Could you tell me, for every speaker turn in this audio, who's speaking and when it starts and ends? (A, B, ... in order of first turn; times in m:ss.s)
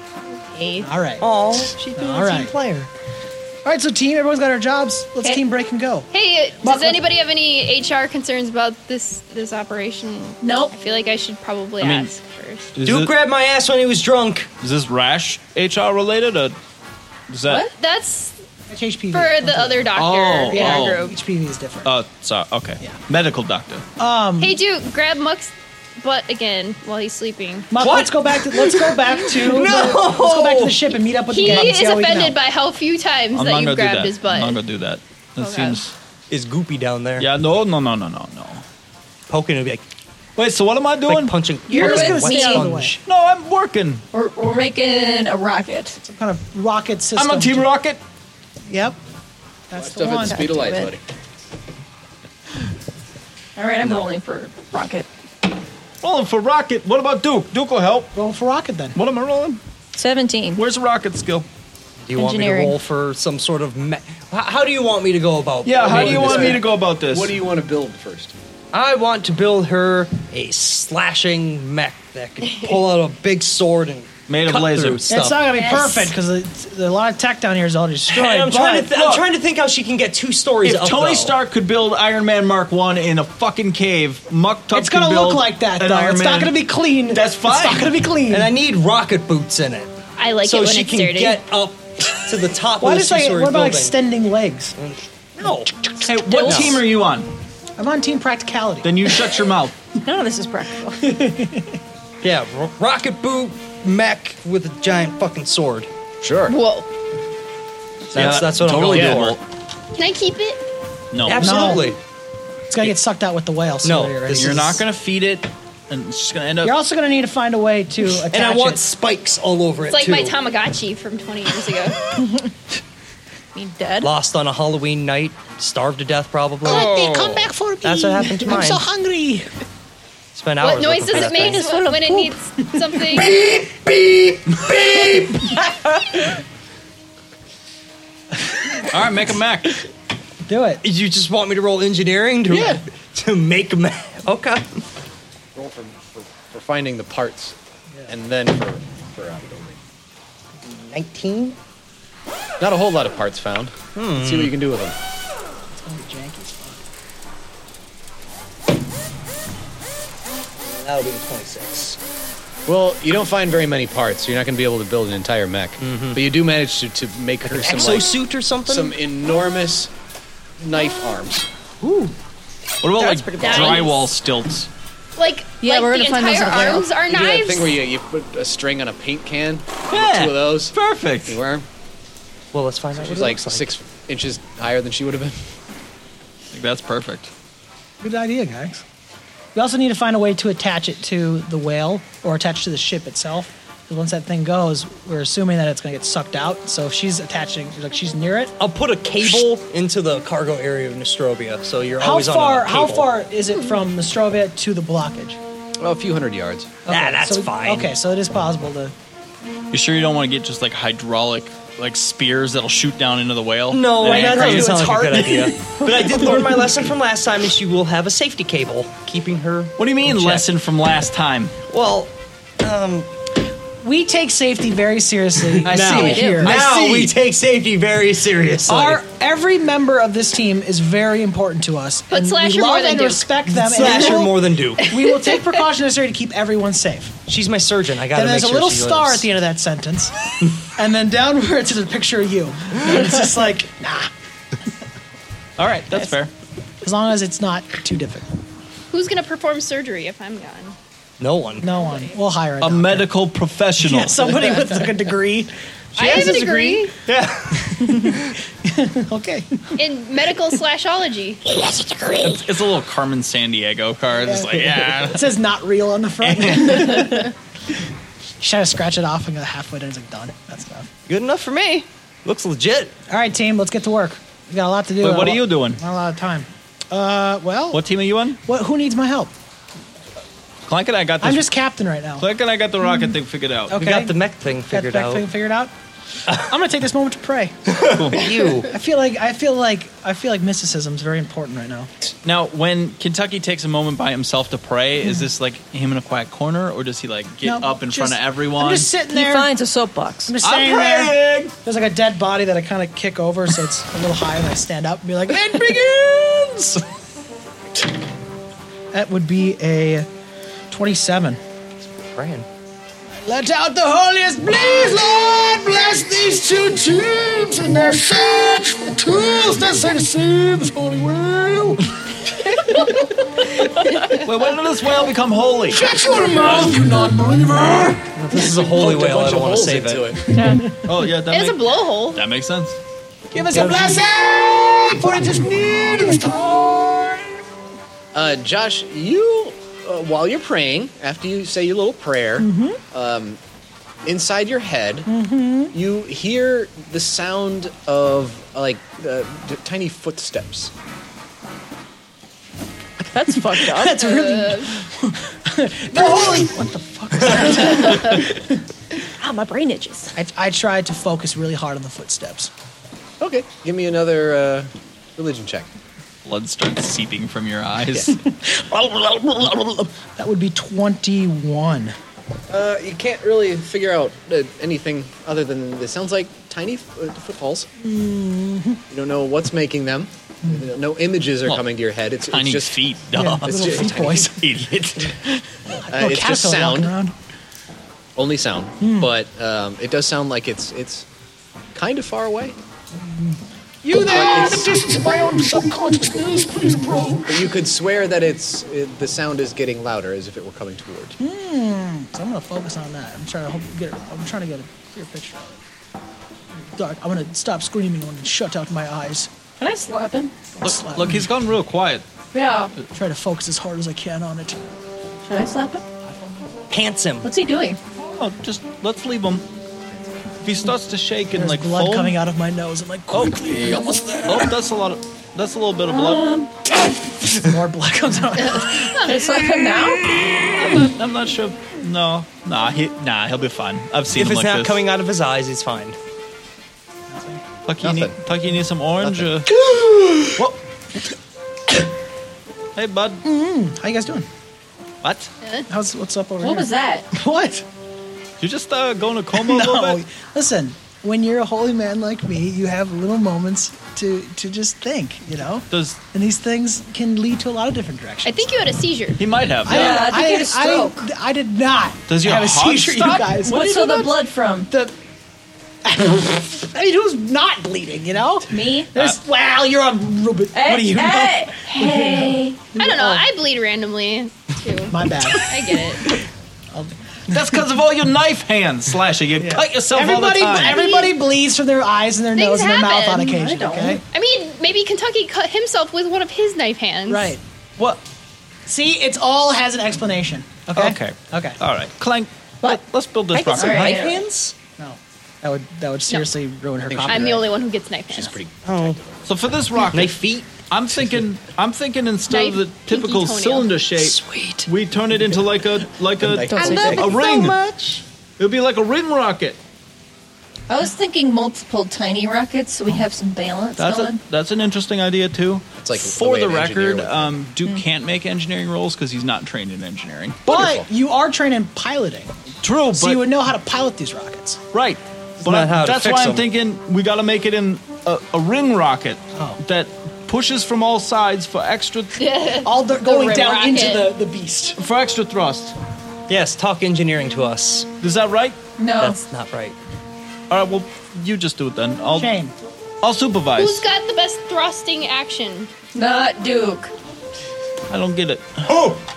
0:00.3-0:00.9 A
0:00.8-0:01.3 B
0:01.2-0:02.9 C
0:01.9-0:02.5 B
0:02.2-0:02.8 D
0:03.6-0:06.1 B
0:06.1-0:12.7 A
0:06.6-0:07.0 B
0:10.4-0:10.7 D
0:11.8-0:12.1 E
0:12.8-0:13.1 E
0:12.8-0:14.5 C
0:14.6-0:16.6 E
0:17.3-0:17.7 E
0:17.8-0:18.4 A
0:18.7-0:19.9 B
0:19.1-0:21.2 A
0:20.0-0:21.1 E
0:20.5-0:21.9 B
0:21.8-0:23.8 E
0:24.0-0:24.6 B
0:24.4-0:27.7 A
0:27.7-0:32.4 B
0:27.8-0:28.1 E
0:27.9-0:30.9 C
0:31.3-0:34.6 A
0:33.3-0:35.9 E
0:35.4-0:35.8 A
0:36.3-0:37.3 C
0:37.2-0:38.6 E
0:39.3-0:39.8 C
0:40.4-0:41.4 E
0:41.0-0:43.0 C
0:41.7-0:42.7 D
0:41.7-0:43.0 B
0:43.0-0:44.0 E
0:44.1-0:46.0 D
0:46.0-0:47.7 B
0:47.2-0:48.0 E
0:48.7-0:49.0 B
0:49.7-0:50.5 B
0:49.8-0:51.0 F
0:50.2-0:50.9 D
0:53.6-0:55.1 D
0:56.0-0:58.1 E
0:58.2-0:59.0 B
0:59.0-0:59.6 E
0:59.9-1:00.6 D
1:00.6-1:01.5 E
1:02.1-1:06.6 C
1:02.1-1:02.8 D
1:05.6-1:07.3 E
1:05.8-1:08.3 F
1:08.7-1:15.4 C
1:14.3-1:15.0 E
1:15.1-1:18.9 B
1:15.5-1:16.1 A
1:18.1-1:21.4 C
1:18.9-1:19.2 E
1:20.6-1:28.0 E
1:24.7-1:28.5 B
1:28.3-1:29.9 C
1:30.2-1:31.4 A
1:30.4-1:34.0 C
1:32.8-1:34.8 B
1:34.8-1:35.8 C
1:36.0-1:37.3 E
1:36.3-1:36.8 A
1:36.4-1:36.8 C
1:37.8-1:39.2 B
1:38.8-1:39.8 E
1:40.0-1:41.2 D
1:41.0-1:41.7 B
1:42.2-1:45.9 C
1:46.2-1:46.6 F
1:46.5-1:46.9 A
1:48.1-1:49.4 E
1:48.1-1:49.4 C
1:48.6-1:49.2 F
1:50.0-1:50.6 A
1:51.1-1:51.8 E
1:51.2-1:52.0 C
1:51.4-1:52.0 B
1:52.7-1:54.8 B
1:53.8-1:54.8 C
1:54.4-1:56.8 E
1:56.6-1:58.8 B
1:58.0-2:00.4 C
1:59.9-2:02.0 A
2:03.6-2:04.1 D
2:04.0-2:08.9 C
2:06.6-2:09.5 B
2:10.3-2:11.7 C
2:10.6-2:13.4 A
2:11.2-2:12.3 D
2:13.0-2:15.6 C
2:18.9-2:19.8 E
2:20.5-2:20.8 B
2:20.8-2:24.8 C
2:22.5-2:22.8 F
2:25.6-2:27.6 F
2:28.1-2:29.8 F
2:30.6-2:31.6 C
2:32.6-2:35.0 F
2:34.0-2:34.6 C
2:35.7-2:36.8 B
2:40.6-2:42.0 C
2:42.7-2:48.1 F
2:45.8-2:46.2 C
2:47.4-2:49.0 C
2:48.7-2:49.9 F
2:50.6-2:51.5 F
2:51.8-2:52.1 C
2:52.8-2:54.7 E
2:53.0-2:54.1 D
2:53.4-2:54.0 A
2:55.2-2:57.8 A
2:55.6-2:57.0 D
2:57.1-3:01.7 F
2:59.9-3:01.4 E
3:02.5-3:03.7 C
3:03.0-3:05.4 F
3:06.5-3:07.3 E
3:08.0-3:08.8 B
3:09.6-3:18.6 B
3:18.6-3:23.1 C
3:22.0-3:25.4 B
3:25.8-3:26.7 F
3:26.9-3:28.9 B
3:26.9-3:28.0 C
3:29.7-3:35.4 E
3:33.7-3:40.4 C
3:34.0-3:35.4 B
3:39.8-3:41.5 E
3:41.7-3:43.1 C
3:43.8-3:46.6 B
3:45.6-3:49.0 C
3:45.7-3:47.1 E
3:45.9-3:46.4 D
3:48.7-3:57.2 B
3:52.1-3:53.3 A
3:53.5-3:54.8 C
3:55.0-3:55.4 A
3:57.3-3:59.3 C
3:58.1-4:00.1 B
4:00.6-4:04.1 B
4:05.6-4:06.3 E
4:06.8-4:08.2 B
4:08.9-4:10.8 A
4:11.2-4:11.7 C
4:11.6-4:13.1 B
4:11.6-4:12.1 A
4:12.6-4:14.5 E
4:13.8-4:16.5 B
4:16.0-4:16.9 A
4:16.0-4:18.2 C
4:17.7-4:19.8 B
4:19.8-4:21.4 A
4:22.2-4:25.4 E
4:24.2-4:27.3 B
4:26.2-4:27.2 E
4:28.4-4:30.9 B
4:31.1-4:32.9 C
4:33.1-4:37.8 B
4:35.0-4:35.8 E
4:37.7-4:38.4 E
4:38.4-4:39.3 B
4:40.7-4:41.5 E
4:41.2-4:42.3 B
4:42.2-4:43.8 E
4:43.7-4:44.2 B
4:43.8-4:45.3 C
4:44.7-4:45.7 B
4:46.3-4:47.6 B
4:47.7-4:48.7 C
4:47.9-4:48.3 E
4:48.7-4:51.9 B
4:52.2-4:58.9 E
4:57.4-4:59.5 B
4:59.1-5:00.4 D
5:00.3-5:06.8 B
5:00.4-5:01.5 E
5:08.9-5:10.1 B
5:10.7-5:11.4 B
5:11.8-5:12.5 C
5:13.1-5:21.8 B
5:24.2-5:25.9 E
5:25.7-5:28.0 B
5:28.1-5:30.2 C
5:28.6-5:30.4 F
5:30.3-5:30.7 D
5:30.7-5:32.8 E
5:31.3-5:32.2 A
5:33.3-5:37.3 B
5:33.4-5:34.0 C
5:38.1-5:43.4 F
5:42.4-5:42.8 B
5:44.0-5:45.1 F
5:45.1-5:45.7 B
5:45.7-5:50.7 F
5:53.0-5:54.2 D
5:53.5-5:58.6 B
5:53.8-5:54.7 A
5:57.3-5:58.2 D
5:59.2-6:00.1 D
6:00.2-6:02.5 B
6:03.2-6:05.7 F
6:06.2-6:08.2 E
6:08.1-6:12.0 B
6:12.5-6:17.7 F
6:17.8-6:18.8 B
6:18.9-6:22.8 F
6:22.3-6:25.4 E
6:23.1-6:24.4 B
6:23.4-6:24.4 F
6:25.7-6:27.1 B
6:25.9-6:26.9 F
6:28.2-6:31.1 F
6:28.8-6:29.1 B
6:31.7-6:32.6 F
6:33.0-6:37.5 B
6:33.9-6:34.9 F
6:37.3-6:41.2 F
6:41.2-6:45.6 B
6:46.6-6:49.3 B
6:49.6-6:50.4 D
6:50.6-6:51.3 B
6:50.6-6:52.0 E
6:52.3-6:52.7 D
6:52.9-6:54.6 B
6:55.3-6:55.8 D
6:56.7-6:57.3 C
6:57.2-6:57.8 D
6:58.0-6:59.4 E
7:00.4-7:02.2 E
7:01.4-7:04.3 B
7:03.7-7:04.0 D
7:04.2-7:06.3 E
7:05.9-7:06.5 D
7:07.2-7:08.9 B
7:08.8-7:10.2 D
7:10.3-7:14.8 E
7:14.1-7:16.0 C
7:17.1-7:17.4 B
7:17.7-7:19.5 E
7:17.8-7:18.2 F
7:22.8-7:23.2 E
7:23.2-7:24.3 B
7:25.0-7:25.3 E
7:25.7-7:27.6 B
7:26.4-7:27.1 D
7:28.4-7:30.0 E
7:29.3-7:38.5 B
7:35.7-7:36.0 E
7:38.2-7:39.2 A
7:39.2-7:40.1 E
7:39.7-7:41.1 D
7:39.7-7:44.1 B
7:42.1-7:43.4 E
7:43.4-7:44.7 D
7:45.8-7:53.2 B
7:48.5-7:48.9 D
7:50.5-7:52.6 D
7:52.8-7:56.1 A
7:54.9-7:55.5 B
7:56.7-7:57.7 B
7:57.3-8:01.0 E
7:59.4-8:04.0 B
8:00.5-8:01.2 A
8:02.4-8:03.3 A
8:03.2-8:04.0 D
8:04.1-8:07.4 A
8:07.1-8:07.4 B
8:08.7-8:11.6 B
8:10.8-8:14.0 E
8:12.6-8:14.2 D
8:13.6-8:14.1 B
8:13.6-8:14.5 C
8:14.8-8:17.4 B
8:16.9-8:17.5 F
8:17.1-8:18.3 A
8:18.1-8:19.4 F
8:18.6-8:19.0 C
8:19.3-8:27.6 E
8:19.9-8:20.5 C
8:22.3-8:23.7 A
8:24.0-8:24.6 C
8:26.2-8:27.3 F
8:26.5-8:27.8 D
8:26.6-8:28.0 C
8:28.4-8:29.6 E
8:30.7-8:34.2 D
8:33.8-8:40.6 E
8:35.8-8:37.5 F
8:40.5-8:42.3 B
8:40.5-8:40.9 F
8:42.6-8:43.3 E
8:42.9-8:44.6 B
8:44.7-8:52.2 E
8:45.4-8:46.4 C
8:49.3-8:49.6 B
8:52.2-8:54.2 A
8:52.6-8:54.8 B
8:54.8-8:55.7 E
8:56.3-8:57.9 C
8:58.0-8:58.7 E
8:58.8-8:59.2 D
8:59.0-8:59.8 C
9:00.5-9:02.3 E
9:02.1-9:02.5 B
9:03.0-9:03.9 E
9:03.6-9:05.7 A
9:05.9-9:06.9 D
9:07.9-9:09.0 E
9:08.7-9:09.0 C